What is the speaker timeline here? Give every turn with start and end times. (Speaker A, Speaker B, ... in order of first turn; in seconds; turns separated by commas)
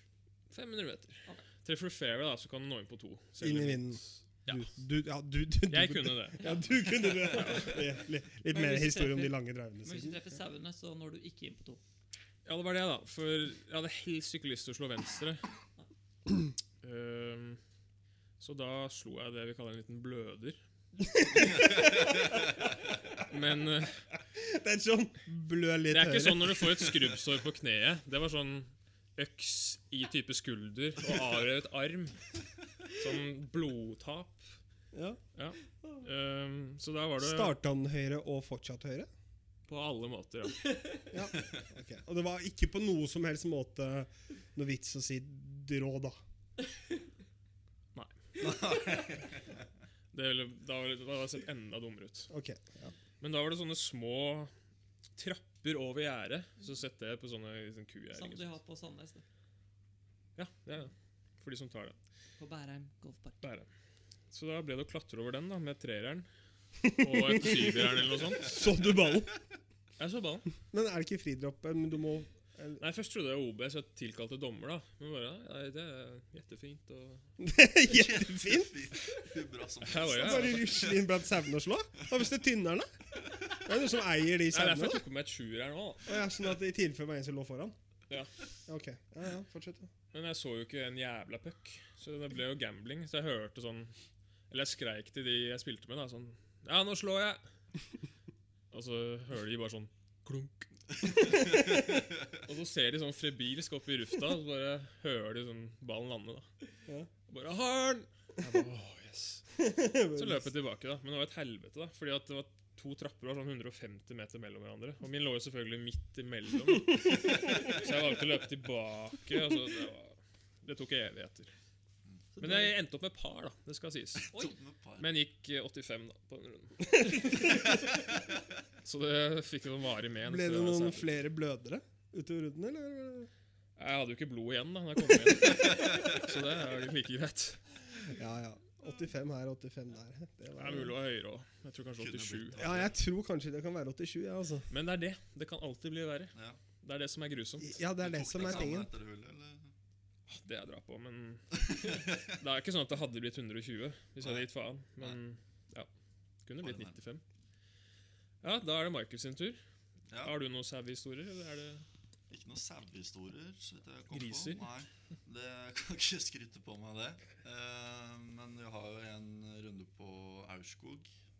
Speaker A: 0.5-4.7, Speaker B: 3.4-10.2, Speaker A: 5.7-7.9, Speaker C: 8.5-11.8, Speaker A: 12.4-15.4, Speaker A: 16.8-17.6, Speaker A: 18.4-20.6, Speaker B: 21.0-22.5, Speaker D: 21.8-22.3, Speaker A: 23.2-24.0, Speaker B: 24.3-27.1, Speaker A: 25.9-32.2, Speaker A: 32.9-34.5, Speaker B: 34.9-35.2, Speaker A: 35.3-37.5, Speaker B: 37.2-39.1, Speaker A: 39.7-40.8, Speaker B: 41.1-46.2, Speaker D: 48.4-49.6, Speaker A: 50.1-52.3, Speaker B: 52.3-52.9, Speaker A: 53.2-54.5, Speaker A: 55.1-58.5, Speaker C: 58.1-59.2, Speaker A: 60.4-62.0, Speaker C: 62.4-63.4, Speaker A: 63.4-63.7, Speaker A: 64.3-66.3, Speaker B: 66.8-69.3, Speaker A: 66.9-68.6, Speaker A: 70.0-70.5, Speaker B: 70.7-72.8, Speaker A: 72.8-77.3, Speaker B: 77.4-79.0, Speaker D: 77.9-81.0, Speaker A: 79.8-80.9, Speaker B: 80.1-82.9, Speaker B: 83.6-85.0, Speaker A: 84.5-86.2, Speaker B: 86.0-87.7, Speaker B: 88.7-89.9, Speaker A: 90.1-93.9, Speaker A: 94.5-97.4, Speaker A: 98.7-106.5, Speaker D: 101.2-102.1, Speaker A: 107.3-109.4, Speaker B: 109.6-110.5, Speaker A: 110.1-121.5, Speaker C: 122.3-122.7, Speaker A: 122.4-124.3, Speaker D: 124.3-125.1, Speaker A: 125.0-127.8, Speaker B: 127.0-127.5, Speaker D: 127.8-128.3, Speaker A: 128.8-131.1, Speaker B: 130.2-133.3, Speaker A: 133.8-137.6, Speaker D: 135.9-136.2, Speaker B: 137.9-140.9, Speaker A: 140.6-142.9, Speaker D: 142.0-143.0, Speaker B: 142.6-144.7, Speaker A: 144.7-147.7, Speaker D: 146.3-146.6, Speaker B: 147.6-148.9, Speaker D: 148.0-149.7, Speaker A: 150.3-155.9, Speaker D: 151.7-152.3, Speaker A: 156.4-157.2, Speaker D: 156.6-157.0, Speaker A: 158.4-159.6, Speaker D: 160.1-160.3, Speaker A: 160.2-161.8, Speaker D: 162.3-171.1, Speaker A: 164.1-164.7